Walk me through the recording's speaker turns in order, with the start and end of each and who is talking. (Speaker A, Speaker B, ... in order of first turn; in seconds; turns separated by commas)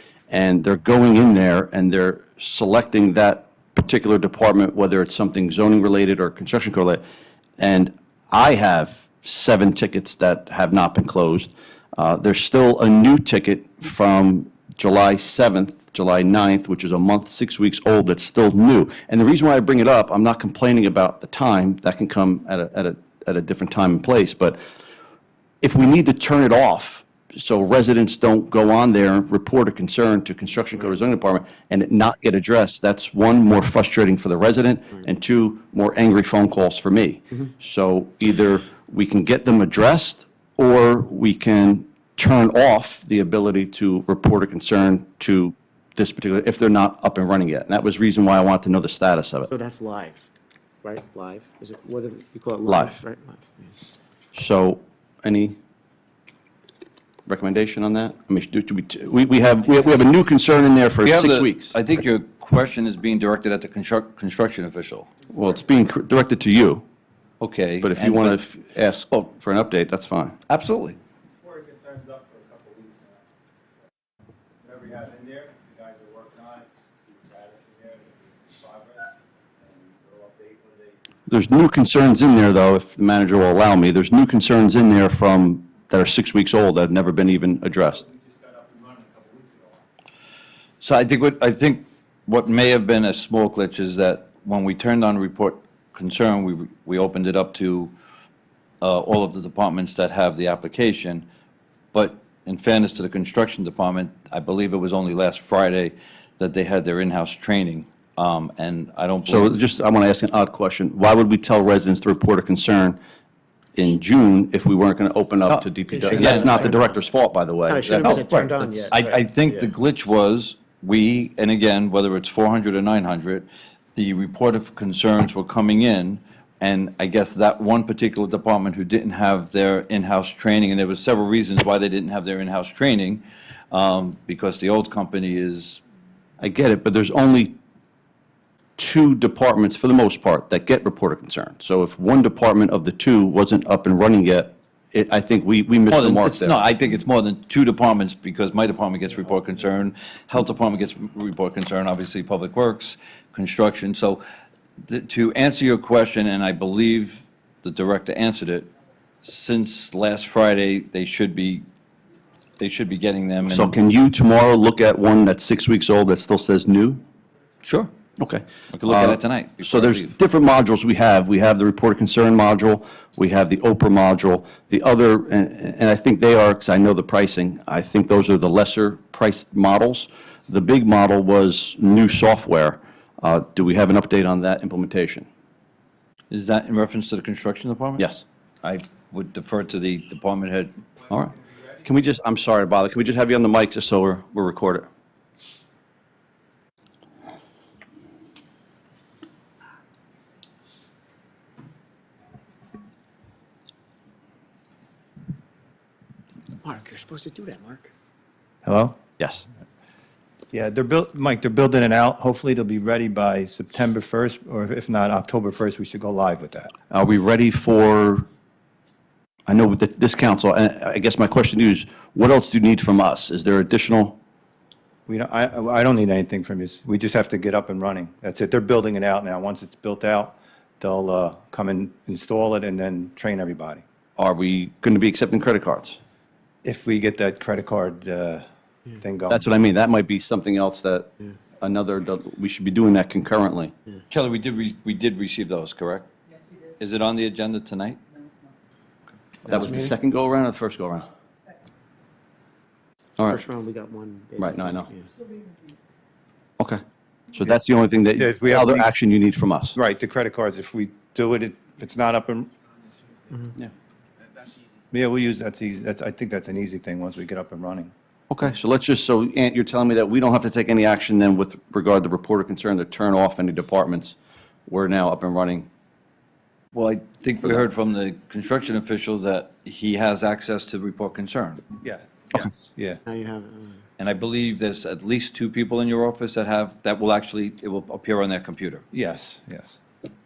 Speaker A: 0.3-7.0, Speaker A: 7.6-24.6, Speaker A: 25.6-49.5, Speaker B: 49.5-50.2, Speaker B: 50.8-53.9, Speaker A: 52.6-53.0, Speaker A: 54.3-55.6, Speaker A: 57.2-61.8, Speaker C: 61.0-65.1, Speaker A: 65.3-66.8, Speaker C: 67.4-68.4, Speaker A: 67.8-70.3, Speaker C: 70.5-71.0, Speaker D: 71.4-73.2, Speaker D: 74.6-81.0, Speaker A: 81.3-88.0, Speaker D: 87.9-89.8, Speaker C: 90.8-97.9, Speaker C: 98.8-101.2, Speaker C: 101.9-109.5, Speaker A: 109.2-113.0, Speaker A: 113.7-118.5, Speaker C: 115.5-116.8, Speaker B: 115.9-116.9, Speaker B: 117.7-119.6, Speaker C: 118.0-118.2, Speaker D: 118.2-118.8, Speaker C: 118.9-135.8, Speaker A: 136.4-137.6, Speaker A: 138.8-146.6, Speaker C: 145.9-154.2, Speaker C: 154.8-158.7, Speaker C: 159.2-161.7, Speaker C: 162.6-163.7, Speaker A: 163.4-167.0, Speaker C: 167.6-167.9, Speaker A: 168.2-185.2, Speaker C: 168.7-170.1, Speaker C: 186.3-188.1, Speaker A: 188.0-188.2, Speaker C: 188.6-190.7, Speaker A: 191.1-194.9, Speaker B: 206.6-207.9, Speaker D: 208.6-209.0, Speaker A: 209.2-209.4, Speaker D: 210.5-216.7, Speaker A: 216.9-218.3, Speaker A: 219.5-224.2, Speaker D: 225.1-233.8, Speaker A: 234.2-236.0, Speaker D: 236.6-239.4, Speaker A: 239.3-241.1, Speaker A: 241.6-243.7, Speaker C: 244.1-246.1, Speaker C: 246.8-248.0, Speaker A: 249.4-251.1, Speaker B: 249.5-249.9, Speaker A: 253.2-253.4, Speaker B: 253.3-255.1, Speaker A: 254.4-254.9, Speaker A: 257.3-259.8, Speaker D: 258.1-258.9, Speaker D: 259.7-262.5, Speaker D: 264.9-267.9, Speaker A: 268.3-275.7, Speaker C: 276.7-281.6, Speaker D: 281.8-283.0, Speaker B: 283.1-283.8, Speaker C: 284.0-288.8, Speaker D: 288.9-289.8